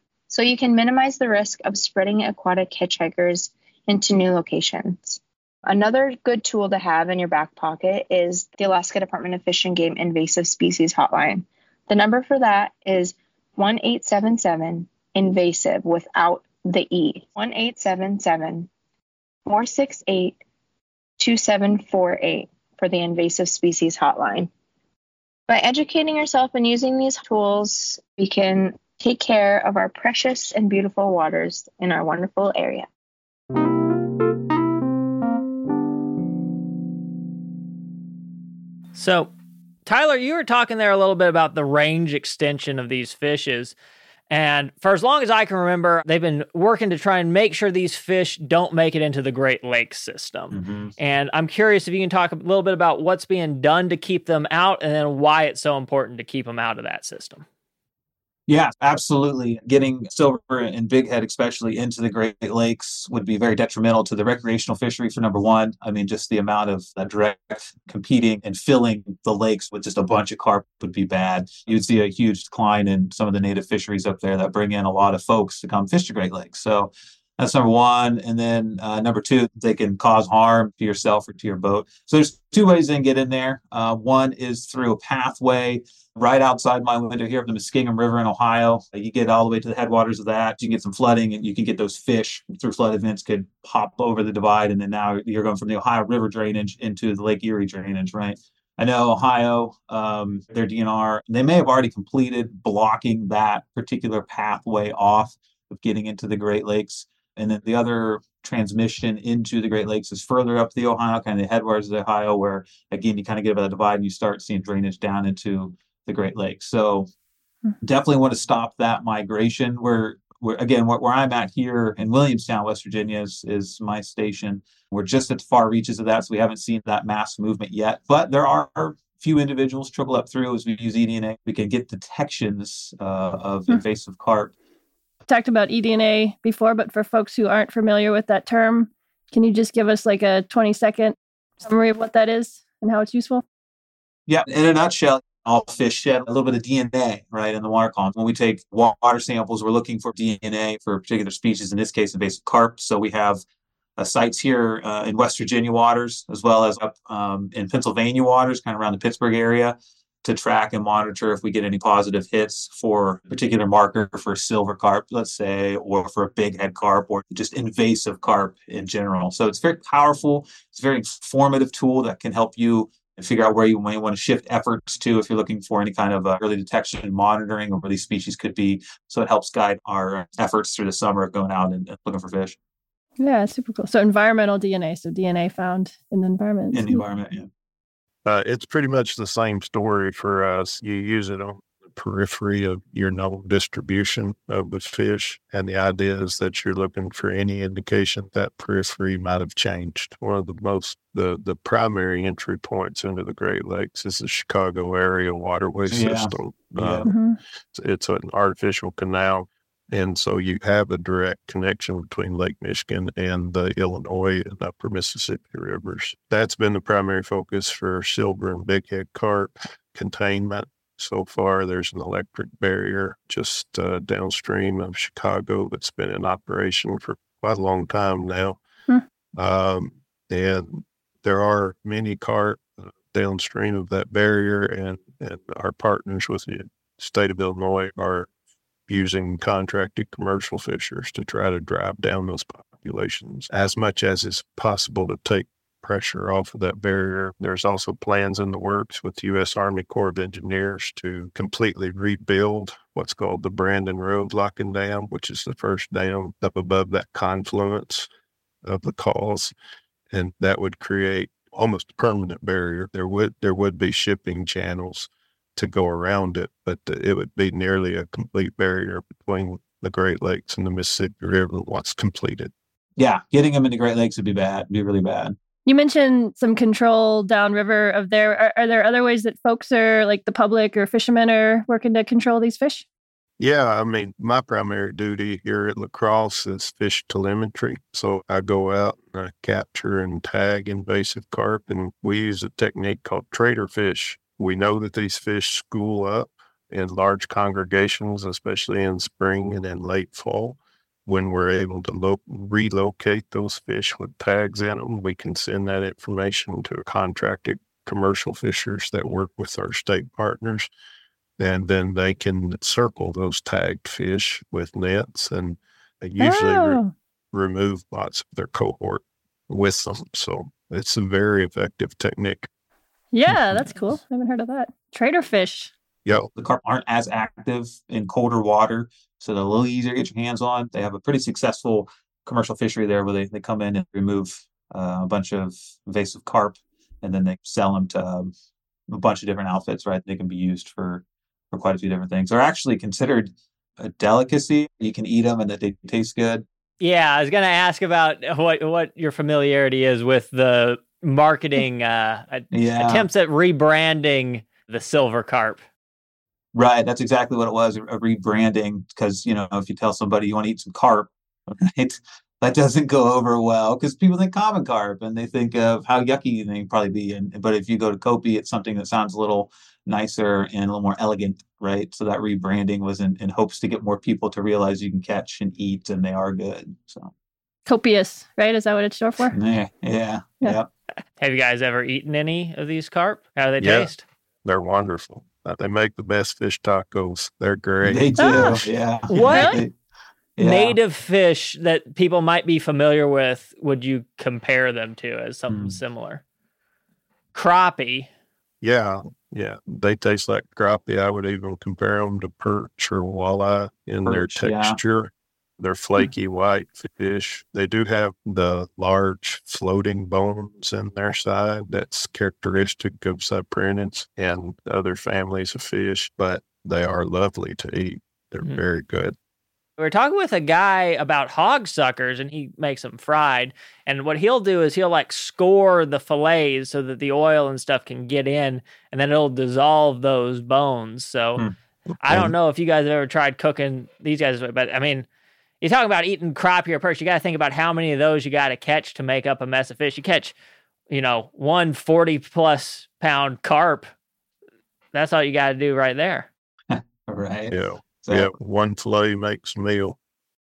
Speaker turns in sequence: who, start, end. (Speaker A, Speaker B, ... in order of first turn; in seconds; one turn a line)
Speaker A: 0.3-18.7
Speaker A: 19.5-20.4
Speaker A: 21.2-24.5
Speaker A: 25.5-32.9
Speaker B: 39.0-39.3
Speaker B: 39.9-43.8
Speaker B: 44.3-57.5
Speaker C: 50.5-50.9
Speaker C: 58.5-117.1
Speaker C: 117.8-134.5
Speaker D: 135.3-143.4
Speaker C: 144.3-153.4
Speaker C: 154.0-182.6
Speaker D: 183.2-187.0
Speaker C: 186.7-187.5
Speaker E: 188.2-207.1
Speaker C: 205.9-207.1
Speaker D: 207.1-207.4
Speaker E: 207.7-228.6
Speaker E: 229.3-238.3
Speaker E: 238.9-258.1
Speaker E: 258.6-259.5
Speaker E: 260.1-272.5
Speaker C: 273.0-275.4
Speaker D: 275.7-282.9
Speaker E: 283.4-310.7
Speaker E: 311.4-316.8
Speaker D: 316.2-316.9
Speaker E: 317.3-322.5
Speaker D: 323.1-325.7
Speaker C: 326.4-338.3
Speaker C: 338.9-346.4
Speaker B: 346.8-355.6
Speaker C: 352.5-353.1
Speaker C: 356.5-377.1
Speaker D: 377.7-379.4
Speaker C: 379.3-380.7
Speaker B: 381.2-384.0
Speaker E: 383.6-383.9
Speaker E: 384.4-388.5
Speaker C: 387.8-389.7
Speaker D: 388.2-388.5
Speaker B: 389.1-389.6
Speaker D: 389.3-389.6
Speaker C: 390.4-390.8
Speaker B: 390.4-396.2
Speaker C: 395.5-395.8
Speaker B: 397.3-398.1
Speaker E: 398.6-419.1
Speaker C: 404.1-404.8
Speaker B: 419.8-431.4
Speaker B: 432.0-435.1
Speaker E: 432.1-432.3
Speaker B: 435.6-440.3
Speaker B: 440.9-443.9
Speaker B: 444.9-446.3
Speaker C: 446.7-448.3
Speaker E: 447.5-450.0